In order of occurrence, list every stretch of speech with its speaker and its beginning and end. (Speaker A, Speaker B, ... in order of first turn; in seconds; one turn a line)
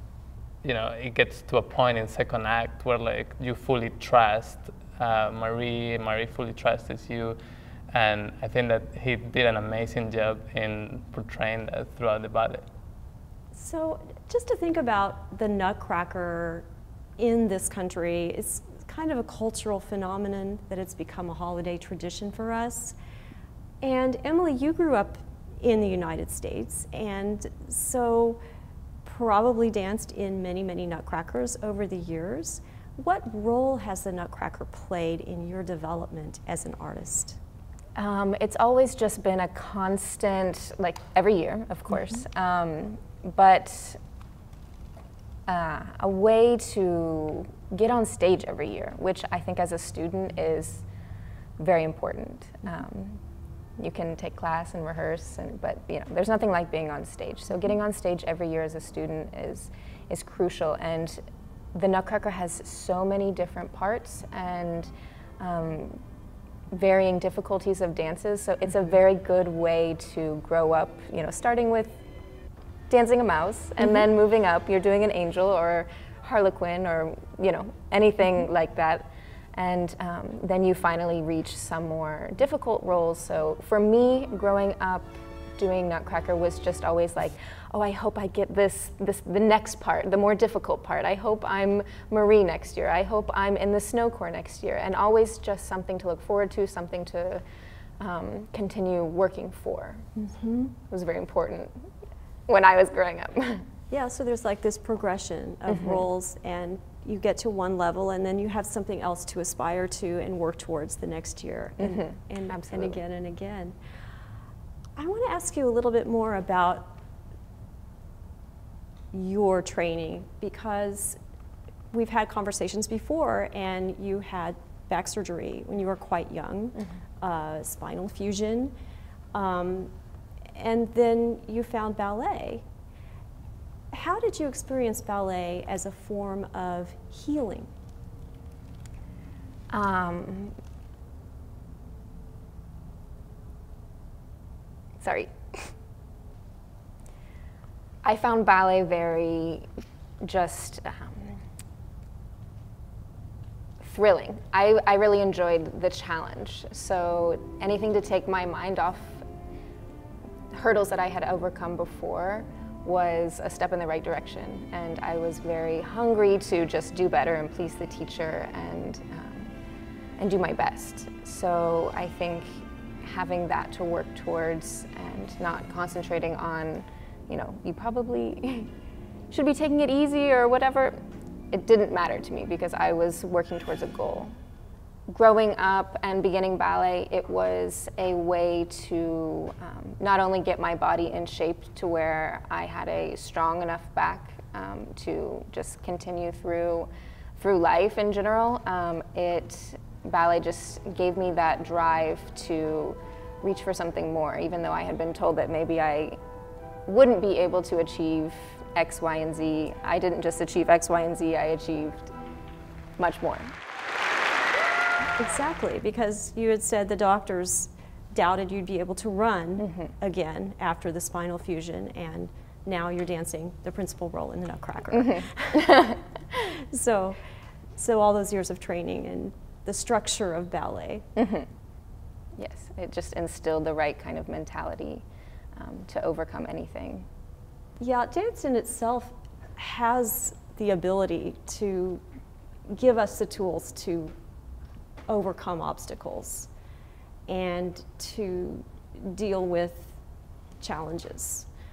Speaker A: 0.6-7.4
Speaker A: 7.9-12.6
Speaker B: 13.5-16.7
Speaker B: 17.2-22.9
Speaker B: 23.8-28.4
Speaker B: 29.0-37.4
Speaker C: 38.0-44.0
Speaker C: 45.5-50.8
Speaker C: 51.6-53.2
Speaker C: 53.8-61.2
Speaker C: 61.7-66.0
Speaker C: 66.7-72.0
Speaker C: 72.9-97.4
Speaker C: 98.0-100.0
Speaker B: 100.2-100.7
Speaker C: 100.8-101.7
Speaker C: 102.5-103.6
Speaker B: 103.9-113.8
Speaker C: 105.7-106.0
Speaker C: 111.8-113.0
Speaker B: 115.0-116.9
Speaker B: 119.1-121.2
Speaker B: 121.9-128.7
Speaker B: 129.3-129.9
Speaker B: 130.5-132.6
Speaker B: 133.9-137.7
Speaker C: 139.7-140.5
Speaker C: 145.0-145.7
Speaker C: 148.0-149.7
Speaker C: 150.2-151.4
Speaker C: 153.8-159.2
Speaker C: 160.5-169.5
Speaker C: 170.2-178.7
Speaker C: 179.3-181.0
Speaker C: 181.5-184.3
Speaker C: 185.1-206.2
Speaker C: 206.9-212.1
Speaker C: 213.0-213.5
Speaker B: 215.2-227.2
Speaker C: 224.9-226.0
Speaker B: 227.8-231.1
Speaker C: 231.2-231.5
Speaker C: 232.3-235.0
Speaker C: 235.6-237.1
Speaker B: 237.8-242.0
Speaker B: 242.7-244.1
Speaker B: 245.1-246.5
Speaker B: 247.3-249.9
Speaker B: 250.6-251.5